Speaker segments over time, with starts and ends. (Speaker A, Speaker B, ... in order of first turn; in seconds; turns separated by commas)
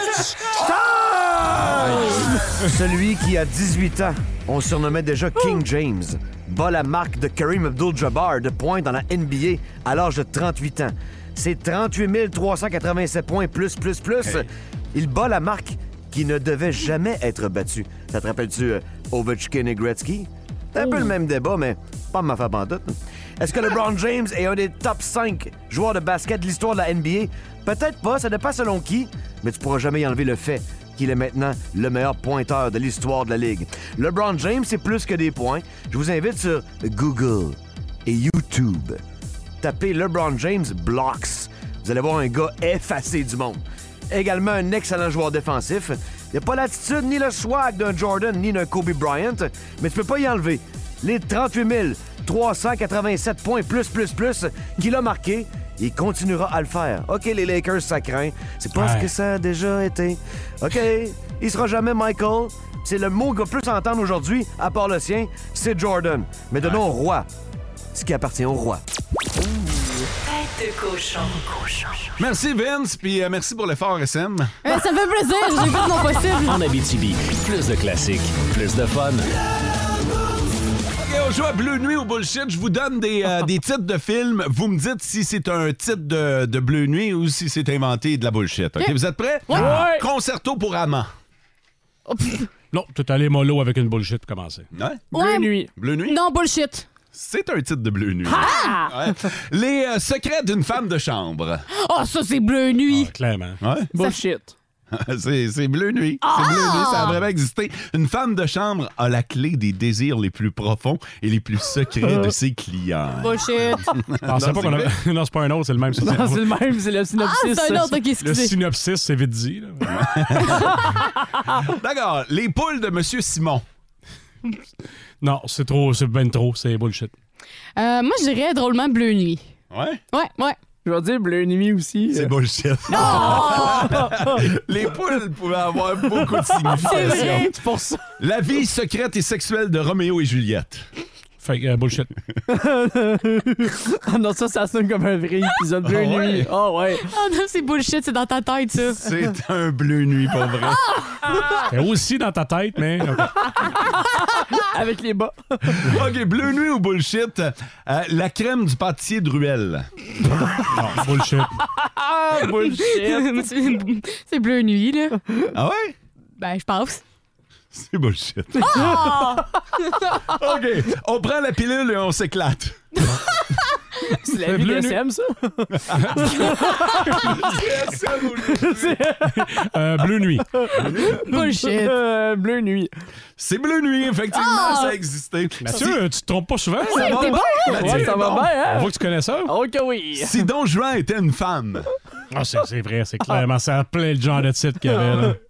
Speaker A: 0.9-2.4, Speaker B: 1.8-2.1, Speaker C: 2.6-39.0, Speaker C: 39.6-67.2, Speaker D: 58.7-59.1, Speaker C: 67.9-68.8, Speaker B: 72.2-74.5, Speaker E: 74.6-76.6, Speaker F: 76.4-79.3, Speaker B: 81.0-91.1, Speaker E: 89.5-89.8, Speaker A: 89.6-90.0, Speaker E: 92.1-92.5, Speaker D: 92.7-94.7, Speaker B: 94.7-95.1, Speaker A: 95.1-95.7, Speaker E: 95.1-96.8, Speaker B: 95.8-96.2, Speaker B: 97.1-101.7, Speaker A: 98.2-98.9, Speaker E: 98.4-98.8, Speaker E: 101.7-103.1, Speaker D: 102.9-103.6, Speaker B: 103.6-103.9, Speaker A: 103.9-104.5, Speaker B: 104.9-114.9, Speaker E: 106.3-107.2, Speaker E: 113.2-113.9, Speaker D: 114.2-116.4, Speaker A: 116.0-118.0, Speaker E: 117.2-118.5, Speaker D: 118.2-119.9, Speaker B: 119.9-120.9, Speaker B: 121.5-123.6, Speaker D: 125.2-127.1, Speaker E: 127.8-129.4, Speaker B: 129.7-130.0, Speaker E: 130.1-130.6, Speaker A: 130.8-132.3, Speaker B: 132.1-137.5, Speaker E: 132.9-134.0, Speaker A: 132.9-134.3, Speaker A: 136.7-138.0, Speaker E: 136.8-137.5, Speaker B: 138.2-140.8, Speaker D: 141.4-142.1, Speaker A: 142.5-147.1, Speaker B: 145.8-146.5, Speaker E: 147.1-149.0, Speaker B: 148.9-150.8, Speaker D: 151.7-153.3, Speaker A: 154.5-155.9, Speaker B: 155.7-159.9, Speaker D: 160.7-161.5, Speaker A: 161.8-163.4, Speaker E: 162.8-165.2, Speaker B: 165.5-165.9, Speaker E: 166.4-167.0, Speaker B: 167.7-169.1, Speaker E: 168.6-170.2, Speaker A: 168.6-169.2, Speaker B: 170.2-172.8, Speaker E: 172.9-174.2, Speaker A: 174.2-177.2, Speaker D: 174.4-175.0, Speaker B: 175.9-176.5, Speaker D: 175.9-176.3, Speaker B: 177.1-179.0, Speaker A: 178.4-179.5, Speaker D: 179.3-180.6, Speaker A: 180.6-182.9, Speaker B: 180.8-181.2, Speaker E: 181.1-181.9, Speaker B: 183.4-186.0, Speaker E: 184.3-184.9, Speaker D: 185.6-187.2, Speaker B: 186.8-188.5, Speaker E: 186.9-187.8, Speaker A: 187.2-188.9, Speaker D: 187.8-189.5, Speaker A: 189.4-190.4, Speaker B: 190.2-191.9, Speaker D: 192.3-195.4, Speaker A: 195.0-195.3